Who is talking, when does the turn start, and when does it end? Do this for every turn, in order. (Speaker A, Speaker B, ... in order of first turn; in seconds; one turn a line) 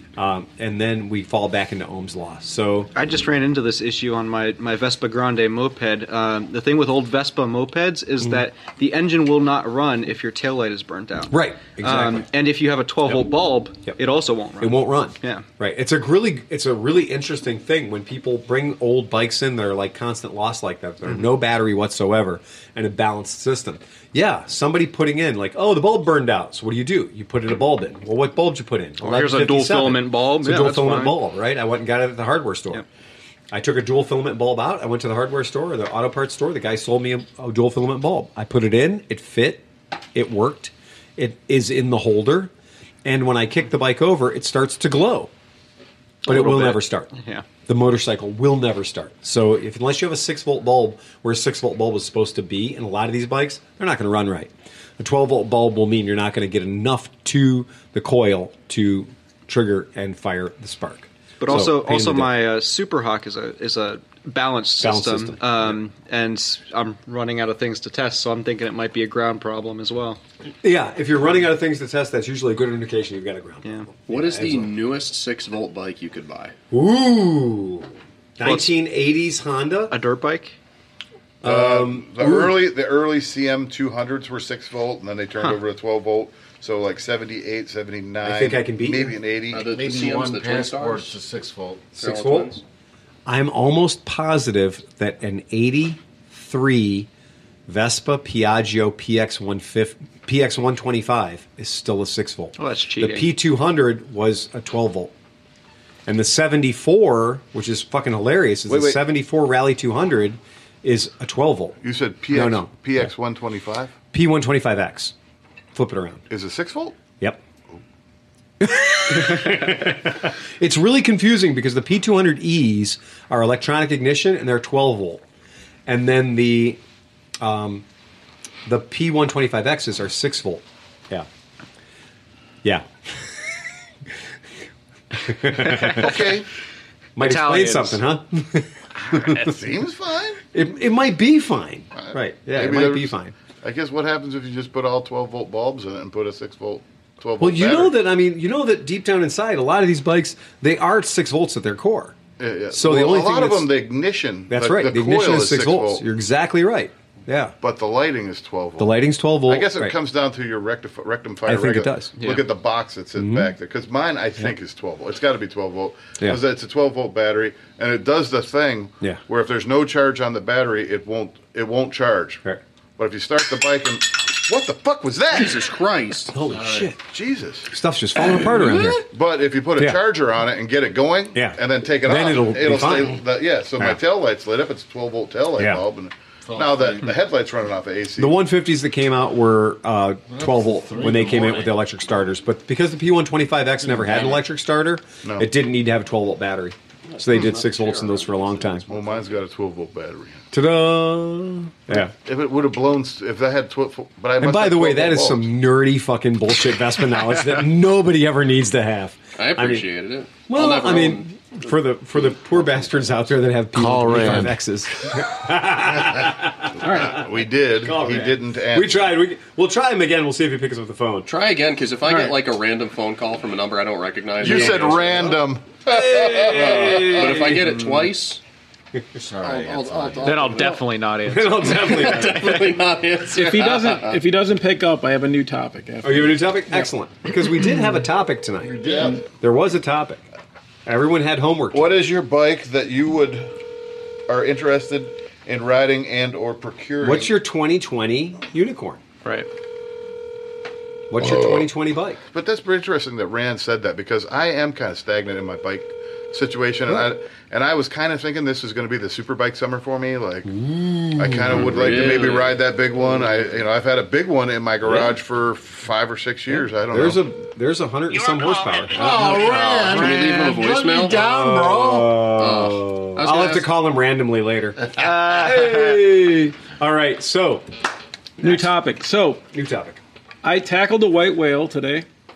Speaker A: 0.2-2.9
Speaker B: 3.0-15.5
Speaker A: 11.3-12.3
Speaker A: 13.1-14.0
Speaker A: 14.6-32.8
Speaker B: 29.0-31.2
Speaker A: 33.5-42.5
Speaker A: 43.0-45.3
Speaker A: 46.2-47.1
Speaker B: 46.2-47.5
Speaker A: 47.7-62.3
Speaker B: 61.4-70.2
Speaker A: 64.8-65.8
Speaker A: 70.6-74.7
Speaker B: 73.6-73.9
Speaker C: 74.1-76.5
Speaker A: 76.7-80.0
Speaker B: 78.4-78.7
Speaker B: 79.9-80.5
Speaker A: 81.4-82.6
Speaker D: 81.4-89.7
Speaker A: 88.2-89.2
Speaker C: 89.5-91.2
Speaker E: 89.6-91.8
Speaker A: 92.0-92.6
Speaker C: 92.0-92.6
Speaker A: 93.3-97.1
Speaker A: 97.7-105.1
Speaker B: 102.6-103.3
Speaker A: 106.1-111.8
Speaker B: 108.7-109.0
Speaker D: 111.8-113.9
Speaker A: 112.3-113.1
Speaker A: 114.1-115.1
Speaker A: 115.7-116.2
Speaker D: 116.3-117.0
Speaker A: 118.6-125.2
Speaker A: 125.9-126.8
Speaker A: 127.4-127.8
Speaker A: 128.7-131.3
Speaker A: 132.6-133.6
Speaker A: 135.2-136.2
Speaker B: 135.7-136.1
Speaker D: 135.9-136.4
Speaker A: 137.2-139.5
Speaker B: 137.2-138.0
Speaker D: 139.0-140.4
Speaker A: 140.5-143.3
Speaker D: 141.9-148.0
Speaker A: 147.4-152.2
Speaker D: 152.4-156.0
Speaker A: 152.7-153.7
Speaker A: 154.5-157.6
Speaker D: 157.6-172.4
Speaker A: 158.8-159.9
Speaker A: 161.4-162.3
Speaker B: 162.2-162.4
Speaker A: 163.2-163.5
Speaker D: 173.0-175.8
Speaker C: 175.3-176.3
Speaker A: 176.3-177.0
Speaker E: 176.5-176.9
Speaker D: 177.1-177.7
Speaker A: 177.7-179.1
Speaker D: 179.1-188.4
Speaker A: 181.3-183.2
Speaker A: 185.6-185.8
Speaker E: 186.5-187.2
Speaker A: 188.2-198.9
Speaker E: 190.3-191.8
Speaker E: 193.8-194.4
Speaker D: 195.2-195.5
Speaker C: 197.1-199.4
Speaker D: 198.9-200.4
Speaker A: 200.5-202.1
Speaker D: 201.9-205.5
Speaker A: 204.4-209.9
Speaker C: 209.4-211.7
Speaker A: 210.5-221.3
Speaker C: 212.5-212.8
Speaker E: 213.7-214.6
Speaker F: 216.8-217.2
Speaker D: 216.8-219.0
Speaker C: 221.3-225.4
Speaker D: 224.4-227.1
Speaker A: 224.4-224.8
Speaker A: 225.9-227.9
Speaker C: 226.2-228.4
Speaker E: 229.2-230.5
Speaker C: 229.4-230.8
Speaker B: 230.2-232.6
Speaker A: 231.3-232.7
Speaker C: 231.7-234.2
Speaker F: 233.3-236.9
Speaker A: 236.0-240.2
Speaker E: 238.6-239.2
Speaker D: 238.8-239.2
Speaker A: 240.9-241.9
Speaker D: 241.7-243.5
Speaker D: 244.3-247.3
Speaker A: 247.0-249.0
Speaker A: 251.1-252.2
Speaker D: 251.2-251.7
Speaker D: 252.3-260.5
Speaker A: 260.4-262.4
Speaker D: 261.2-267.2
Speaker C: 261.5-262.6
Speaker A: 266.5-269.4
Speaker E: 268.9-272.3
Speaker C: 269.2-271.3
Speaker A: 271.3-277.7
Speaker C: 272.4-273.7
Speaker B: 275.0-276.0
Speaker A: 278.4-278.7
Speaker F: 278.4-279.4
Speaker A: 279.5-280.0
Speaker F: 280.4-282.1